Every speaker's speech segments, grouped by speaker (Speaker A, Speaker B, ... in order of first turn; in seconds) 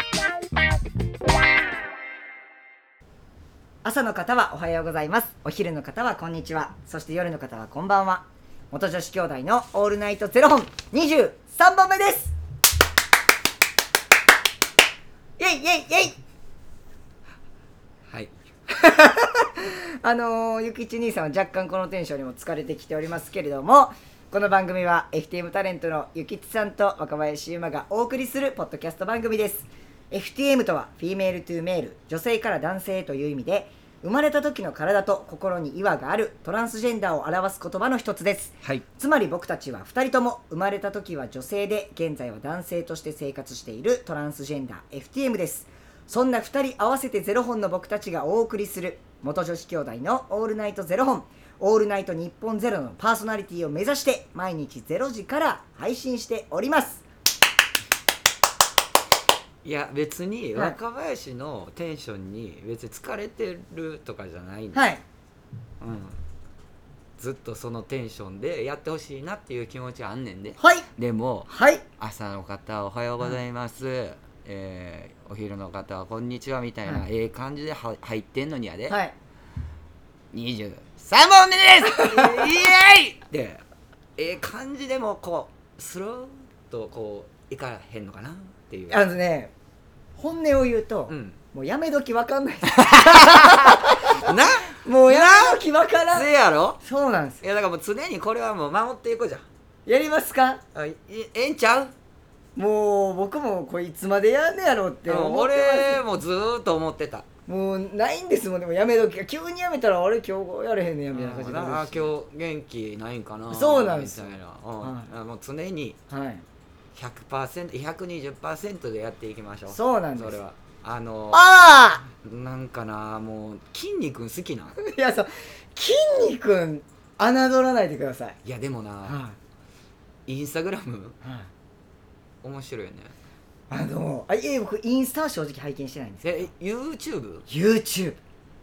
Speaker A: 3.8-12.3, 15.4-16.2, 18.7-57.0, 64.7-65.0, 70.6-70.9, 71.5-71.8, 78.9-79.1, 82.0-82.5, 88.9-89.5, 90.2-96.3, 96.8-97.4, 99.9-100.6, 102.6-106.0, 107.5-112.1, 113.5-115.1, 116.1-116.4, 119.7-120.4, 121.3-122.1, 124.8-128.4, 129.1-129.4, 131.2-131.5, 133.7-136.5, 137.5-138.2
Speaker B: 59.6-64.8, 65.8-66.2, 67.2-71.5, 72.0-79.0, 80.3-83.6, 84.2-89.0, 91.1-91.4, 92.8-95.6, 96.1-96.8, 97.4-99.5, 100.7-101.9, 105.1-107.3, 111.1-116.0, 117.0-121.4, 122.2-124.8, 128.4-129.2, 130.3-131.2, 132.4-133.1, 136.2-137.5